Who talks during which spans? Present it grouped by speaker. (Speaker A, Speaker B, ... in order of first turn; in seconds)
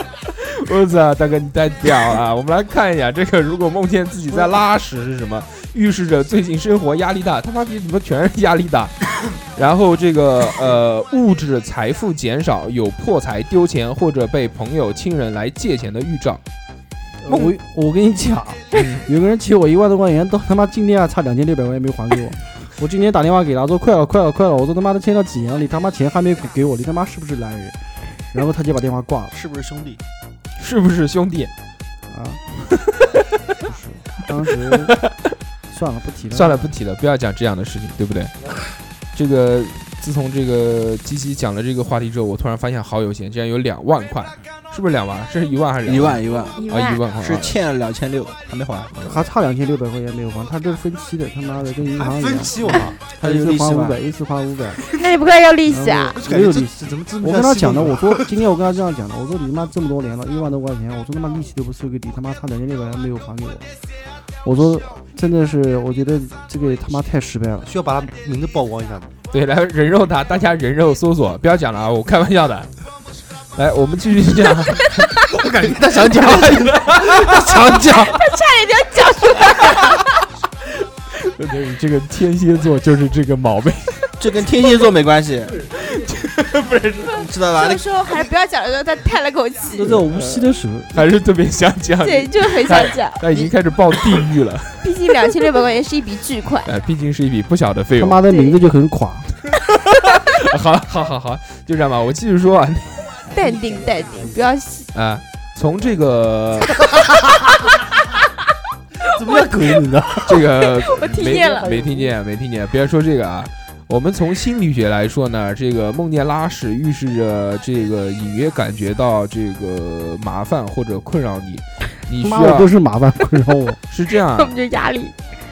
Speaker A: 0.4-16.4, 17.3-17.5, 18.7-19.0, 30.6-31.5, 36.3-38.3, 39.1-47.6, 69.3-72.7, 73.5-74.9, 76.0-77.5, 81.2-84.1, 85.7-87.2, 90.2-95.2, 96.6-98.2, 99.9-103.2, 104.9-106.8, 110.2-122.7, 123.9-124.5
Speaker B: 17.2-27.8, 28.3-29.3, 32.1-32.4, 33.6-34.9, 35.7-36.6, 49.0-54.8, 55.7-63.6, 64.4-67.7, 89.7-90.9, 98.0-99.3, 122.2-123.8
Speaker C: 29.3-30.0, 45.8-49.1, 53.2-54.0, 84.2-85.6, 87.2-87.8
Speaker D: 46.5-47.0, 55.0-56.2, 77.8-80.2, 87.5-90.0, 92.0-93.2, 94.8-96.7, 98.3-98.6, 103.3-104.9, 110.8-111.9, 124.3-125.1
Speaker E: 51.9-53.0, 56.2-58.3, 67.6-69.1, 75.2-78.2, 109.1-110.5, 111.1-112.1